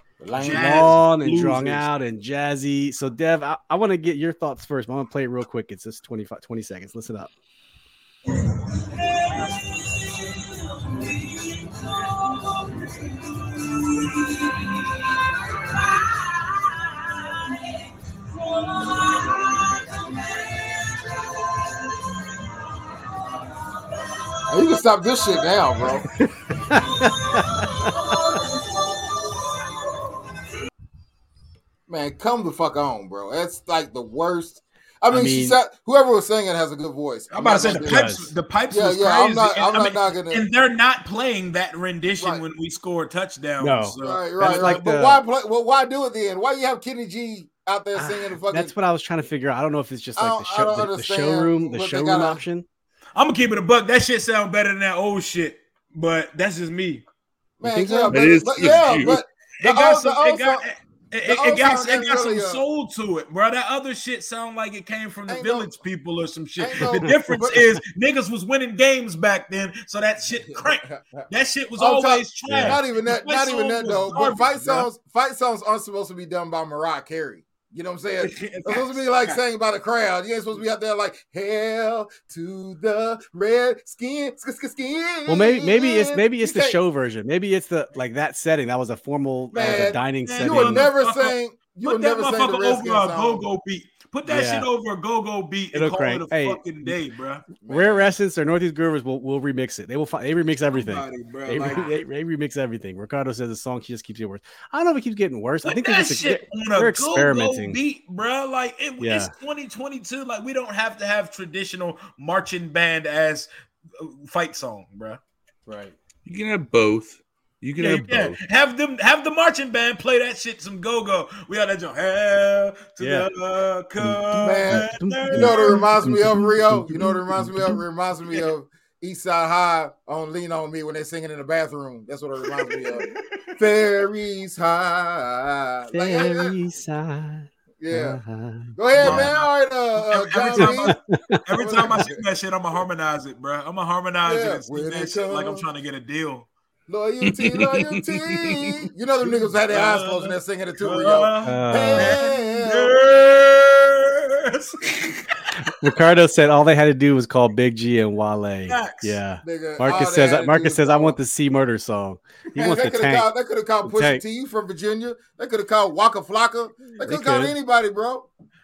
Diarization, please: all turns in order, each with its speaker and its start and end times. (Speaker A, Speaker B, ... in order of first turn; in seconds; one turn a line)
Speaker A: 0.2-1.0
Speaker B: 0.3-1.9
Speaker C: 0.4-7.3
Speaker A: 24.4-26.1
Speaker C: 26.1-28.2
Speaker A: 31.9-38.1
Speaker C: 35.1-35.6
Speaker B: 37.3-44.8
Speaker C: 37.8-38.3
Speaker A: 38.7-40.4
Speaker A: 42.2-42.4
Speaker C: 43.6-45.2
Speaker A: 44.0-48.7
Speaker C: 48.0-52.6
Speaker A: 50.1-52.4
Speaker B: 53.1-57.0
Speaker A: 57.6-60.6
Speaker C: 57.6-58.2
Speaker D: 58.1-59.2
Speaker B: 59.6-74.9
Speaker A: 61.2-62.6
Speaker A: 65.3-65.8
Speaker A: 66.6-67.7
Speaker A: 70.3-71.2
Speaker A: 71.8-86.8
Speaker C: 72.5-72.8
Speaker B: 78.2-79.4
Speaker C: 85.3-90.9
Speaker A: 89.5-93.5
Speaker B: 89.6-97.5
Speaker C: 94.2-94.7
Speaker C: 95.7-97.0
Speaker A: 97.6-98.1
Speaker C: 97.6-107.8
Speaker B: 100.7-101.9
Speaker B: 105.6-115.2
Speaker C: 109.0-109.3
Speaker A: 115.7-115.9
Speaker D: 116.2-118.4
Speaker B: 117.8-125.9
Speaker C: 123.0-123.3
Speaker C: 124.0-127.8
Speaker A: 124.3-133.1
Speaker B: 132.7-133.1
Speaker A: 133.6-136.5
Speaker C: 135.9-139.3
Speaker A: 137.8-138.2
Speaker A: 138.7-141.0
Speaker B: 138.9-146.5
Speaker C: 140.6-141.4
Speaker A: 141.5-142.2
Speaker A: 144.2-145.7
Speaker A: 146.9-153.0
Speaker D: 147.2-148.8
Speaker B: 149.2-155.3
Speaker C: 151.4-152.2
Speaker C: 155.6-163.3
Speaker B: 158.7-159.2
Speaker A: 159.4-161.2
Speaker A: 162.5-168.3
Speaker C: 163.8-164.2
Speaker C: 167.0-167.5